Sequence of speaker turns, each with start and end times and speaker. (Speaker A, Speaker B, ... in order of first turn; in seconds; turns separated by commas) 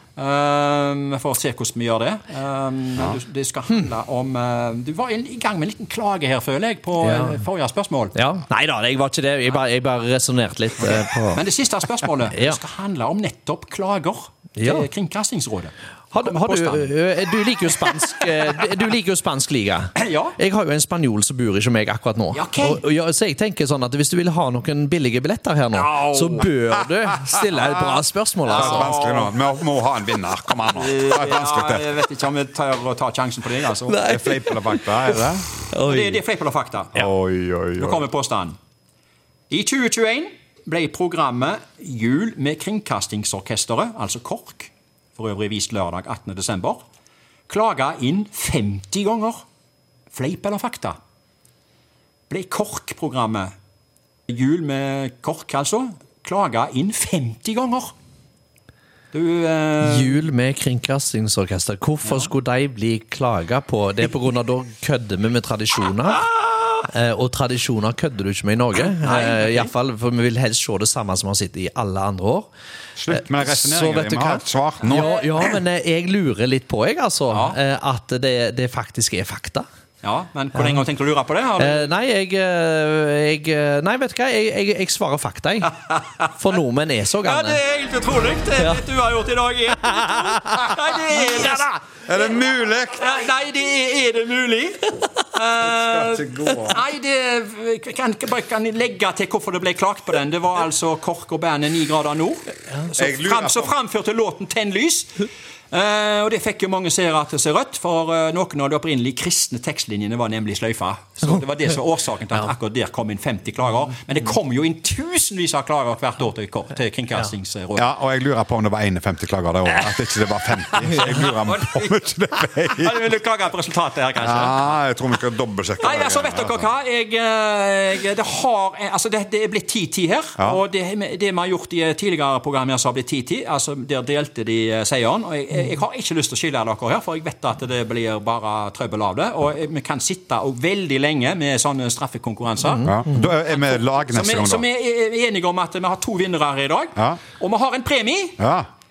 Speaker A: 0.2-8.2, Speaker B: 7.0-7.4, Speaker B: 8.1-11.4, Speaker A: 11.3-16.9, Speaker B: 12.3-12.6, Speaker B: 14.6-14.9, Speaker B: 16.1-28.9, Speaker A: 17.6-18.3, Speaker A: 20.0-20.4, Speaker A: 22.3-22.8, Speaker A: 25.7-26.5, Speaker A: 28.4-29.4, Speaker C: 28.5-31.9, Speaker A: 30.7-34.0, Speaker B: 33.9-36.2, Speaker C: 34.0-35.5, Speaker A: 35.8-37.1, Speaker C: 37.0-38.0, Speaker A: 37.8-38.6, Speaker A: 39.5-46.8, Speaker A: 47.5-49.4, Speaker A: 50.1-51.0, Speaker A: 52.3-53.5, Speaker A: 54.3-57.9, Speaker A: 59.1-60.2, Speaker B: 59.8-72.5, Speaker A: 62.0-62.3, Speaker A: 68.7-69.7, Speaker C: 73.0-75.2, Speaker B: 73.1-79.7, Speaker A: 74.8-75.3, Speaker A: 77.3-77.6, Speaker A: 80.0-81.9, Speaker B: 81.6-85.8, Speaker A: 85.9-86.3, Speaker B: 86.3-87.6, Speaker A: 87.2-91.8, Speaker B: 88.6-88.8, Speaker B: 90.0-90.5, Speaker C: 92.1-93.1, Speaker A: 93.0-117.9, Speaker C: 95.6-96.8, Speaker C: 103.0-103.7, Speaker C: 117.8-123.1, Speaker A: 119.7-122.0, Speaker A: 122.8-124.8, Speaker C: 124.2-126.7, Speaker A: 125.8-148.4, Speaker B: 142.6-143.3, Speaker C: 142.8-144.7, Speaker C: 147.0-147.2, Speaker C: 148.4-148.7